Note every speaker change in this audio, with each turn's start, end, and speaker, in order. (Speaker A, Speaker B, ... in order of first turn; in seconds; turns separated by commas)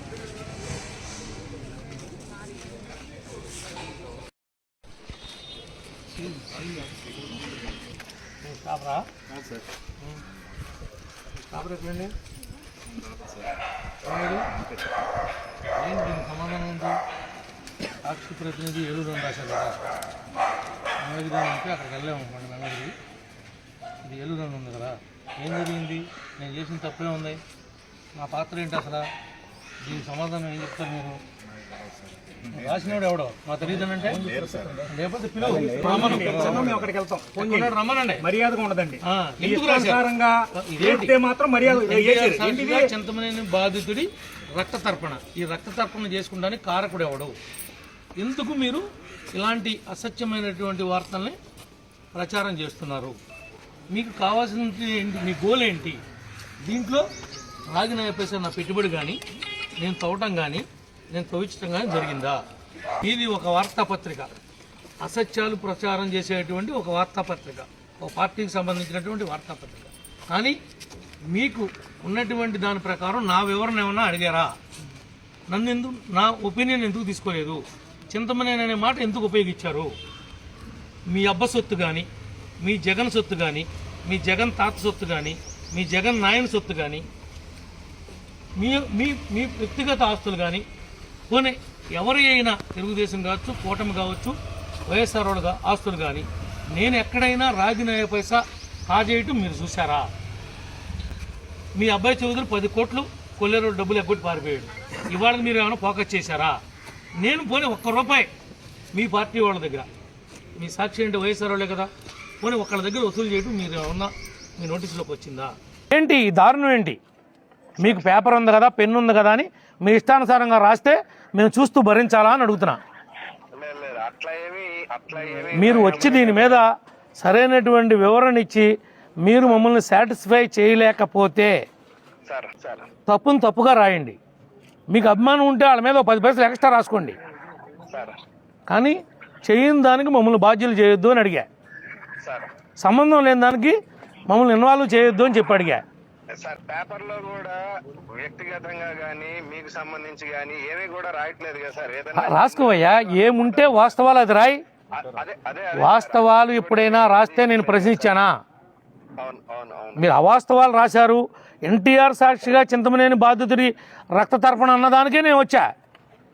Speaker A: 8.4-9.1, Speaker A: 11.5-12.1, Speaker A: 14.0-14.4, Speaker A: 15.8-17.0, Speaker A: 18.0-19.8, Speaker A: 21.0-22.9, Speaker A: 24.0-27.4, Speaker A: 28.2-29.1, Speaker A: 29.8-31.2, Speaker A: 32.5-34.2, Speaker B: 34.1-34.8, Speaker A: 34.9-36.7, Speaker B: 35.5-42.9, Speaker A: 37.3-38.3, Speaker A: 39.0-47.4, Speaker A: 48.2-51.4, Speaker A: 52.1-53.2, Speaker A: 53.9-56.0, Speaker A: 56.6-57.1, Speaker A: 57.7-59.2, Speaker A: 59.8-62.4, Speaker A: 63.0-64.3, Speaker A: 65.0-70.6, Speaker A: 71.3-74.5, Speaker A: 75.5-79.9, Speaker A: 81.1-82.1, Speaker A: 82.6-87.0, Speaker A: 88.6-90.6, Speaker A: 91.3-94.4, Speaker A: 94.9-100.1, Speaker A: 101.8-106.6, Speaker A: 107.2-108.3, Speaker A: 108.9-109.9, Speaker A: 110.6-111.9, Speaker A: 112.4-117.0, Speaker A: 117.8-122.8, Speaker C: 123.5-126.6, Speaker A: 125.5-128.7, Speaker A: 129.2-131.6, Speaker C: 132.2-132.9, Speaker A: 133.1-134.2, Speaker A: 134.9-137.2, Speaker C: 137.9-138.2, Speaker A: 138.7-141.5, Speaker C: 142.2-142.5, Speaker A: 142.8-145.8, Speaker C: 146.3-147.6, Speaker C: 148.1-153.7, Speaker A: 152.2-154.6, Speaker C: 154.9-158.1, Speaker A: 155.7-158.3, Speaker C: 159.2-160.0, Speaker A: 159.9-165.7